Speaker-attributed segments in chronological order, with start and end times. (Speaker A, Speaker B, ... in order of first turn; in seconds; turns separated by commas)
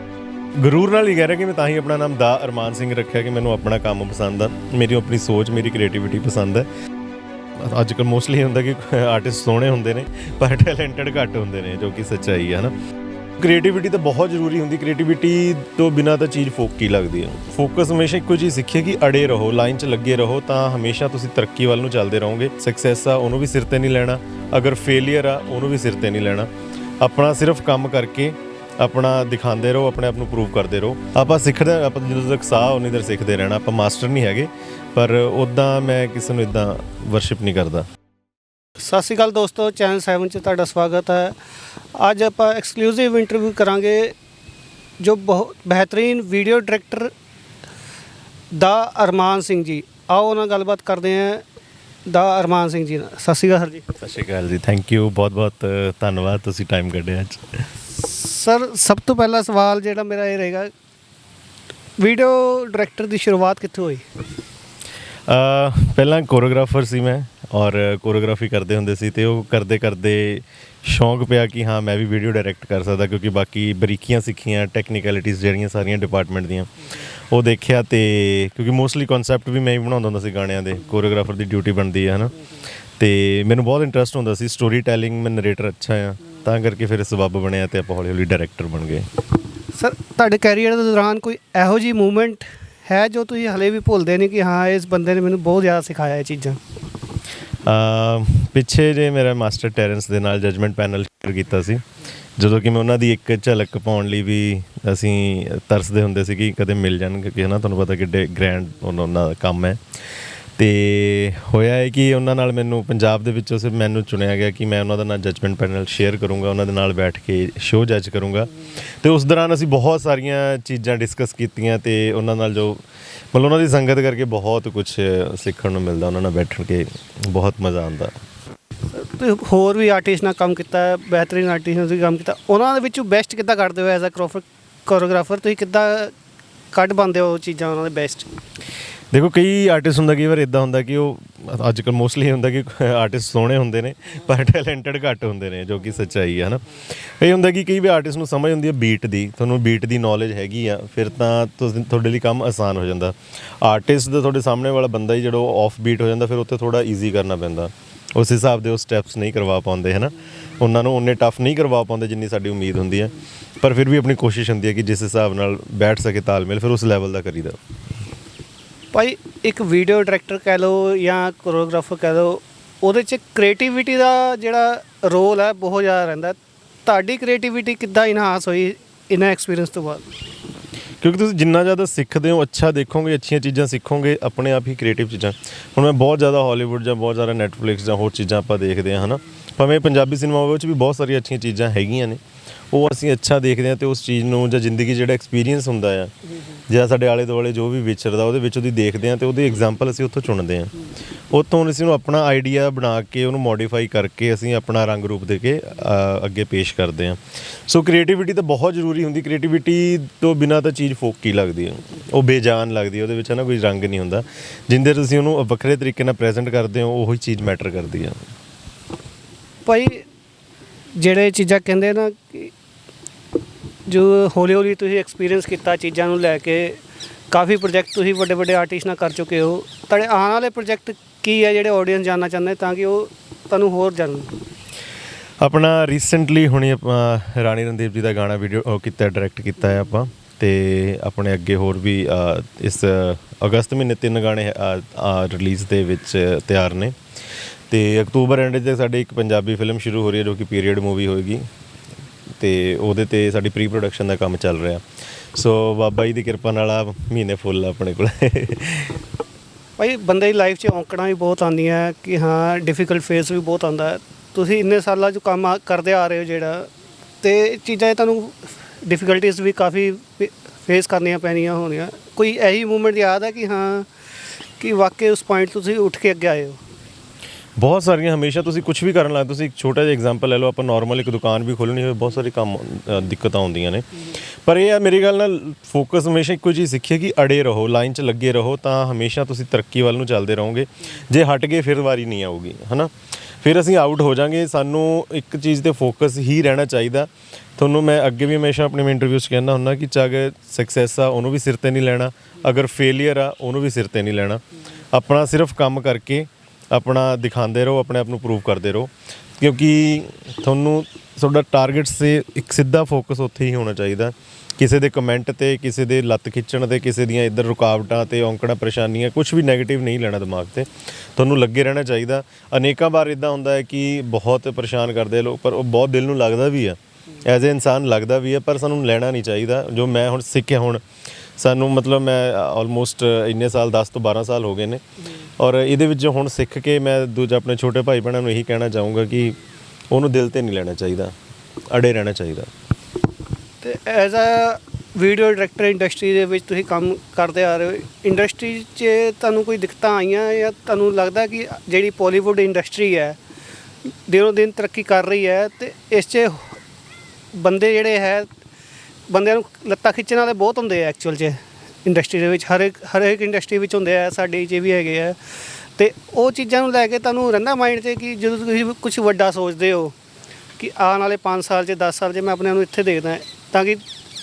Speaker A: 0.6-6.7, Speaker A: 7.6-12.7, Speaker A: 13.4-37.9, Speaker B: 38.8-41.4, Speaker B: 42.0-44.1, Speaker B: 45.0-47.1, Speaker B: 48.5-51.4, Speaker B: 52.1-53.9, Speaker A: 54.0-57.6, Speaker B: 57.9-60.7, Speaker B: 62.0-64.0, Speaker A: 65.3-82.3, Speaker A: 83.0-89.1, Speaker B: 89.7-96.6, Speaker A: 97.6-101.8, Speaker A: 102.4-109.8, Speaker A: 110.6-122.8, Speaker A: 123.3-128.1, Speaker B: 128.9-136.1, Speaker B: 136.7-138.3, Speaker A: 139.1-146.6, Speaker A: 147.2-167.6, Speaker B: 168.9-180.1, Speaker A: 181.0-192.2, Speaker A: 192.7-196.1, Speaker A: 196.7-200.7, Speaker A: 201.3-218.2, Speaker B: 219.7-220.0, Speaker B: 220.9-222.5, Speaker B: 223.9-226.8, Speaker B: 227.3-234.3, Speaker A: 235.4-247.0, Speaker A: 247.7-251.4, Speaker A: 252.4-254.8, Speaker A: 255.3-258.9, Speaker B: 259.8-266.7, Speaker B: 267.2-273.9, Speaker B: 274.6-276.6, Speaker A: 277.6-330.8, Speaker A: 331.4-334.8, Speaker A: 335.4-339.4, Speaker A: 339.9-341.1, Speaker A: 341.7-342.5, Speaker B: 343.6-353.2, Speaker B: 354.1-356.6, Speaker B: 357.3-358.3, Speaker B: 359.1-365.2, Speaker B: 365.8-369.9, Speaker B: 370.6-373.8